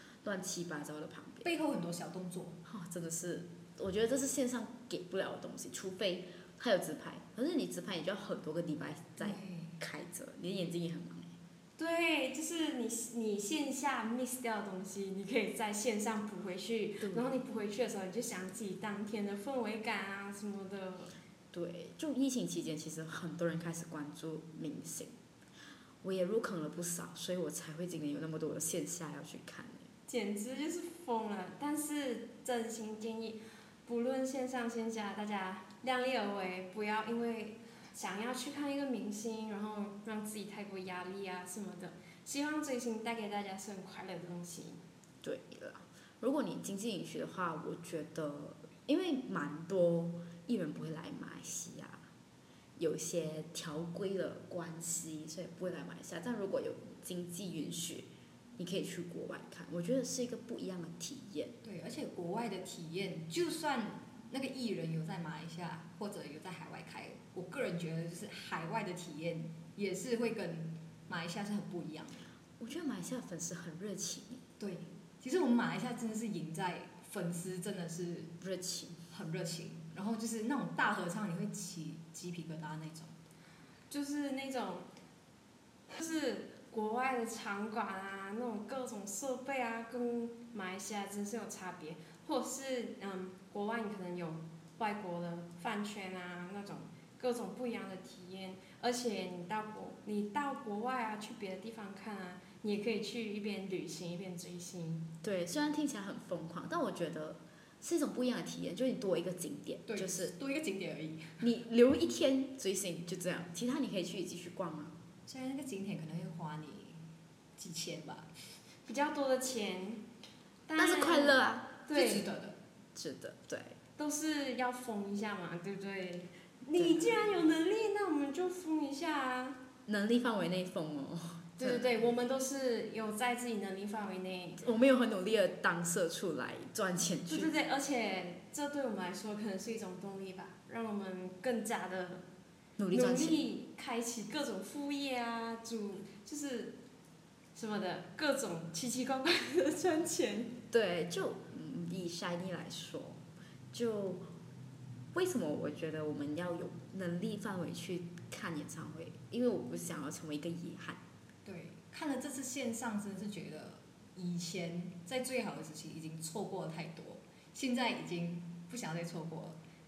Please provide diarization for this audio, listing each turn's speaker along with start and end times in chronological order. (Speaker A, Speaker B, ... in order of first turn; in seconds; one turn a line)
Speaker A: 0.2-1.5
Speaker B: 1.4-2.6
Speaker A: 2.6-11.3
Speaker B: 9.2-9.7
Speaker C: 11.8-21.1
Speaker A: 17.0-17.4
Speaker A: 21.5-25.1
Speaker A: 26.0-29.9
Speaker C: 30.1-44.8
Speaker A: 45.2-52.0
Speaker A: 52.8-61.5
Speaker B: 61.6-72.3
Speaker A: 72.6-74.4
Speaker B: 74.6-78.3
Speaker A: 78.4-79.0
Speaker B: 79.1-83.1
Speaker C: 83.9-84.9
Speaker C: 85.9-105.1
Speaker A: 105.2-110.3
Speaker B: 109.9-111.4
Speaker A: 111.4-115.0
Speaker B: 115.3-117.0
Speaker B: 117.6-118.3
Speaker C: 118.8-120.0
Speaker C: 120.7-122.3
Speaker A: 120.8-121.8
Speaker B: 121.9-122.6
Speaker A: 122.9-123.8
Speaker C: 124.0-129.6
Speaker A: 126.7-127.2
Speaker A: 129.9-132.0
Speaker C: 131.6-134.6
Speaker A: 134.6-137.5
Speaker C: 137.3-142.2
Speaker A: 142.8-143.4
Speaker C: 142.9-146.8
Speaker C: 147.5-150.5
Speaker A: 150.7-154.3
Speaker A: 155.1-161.0
Speaker B: 161.4-169.6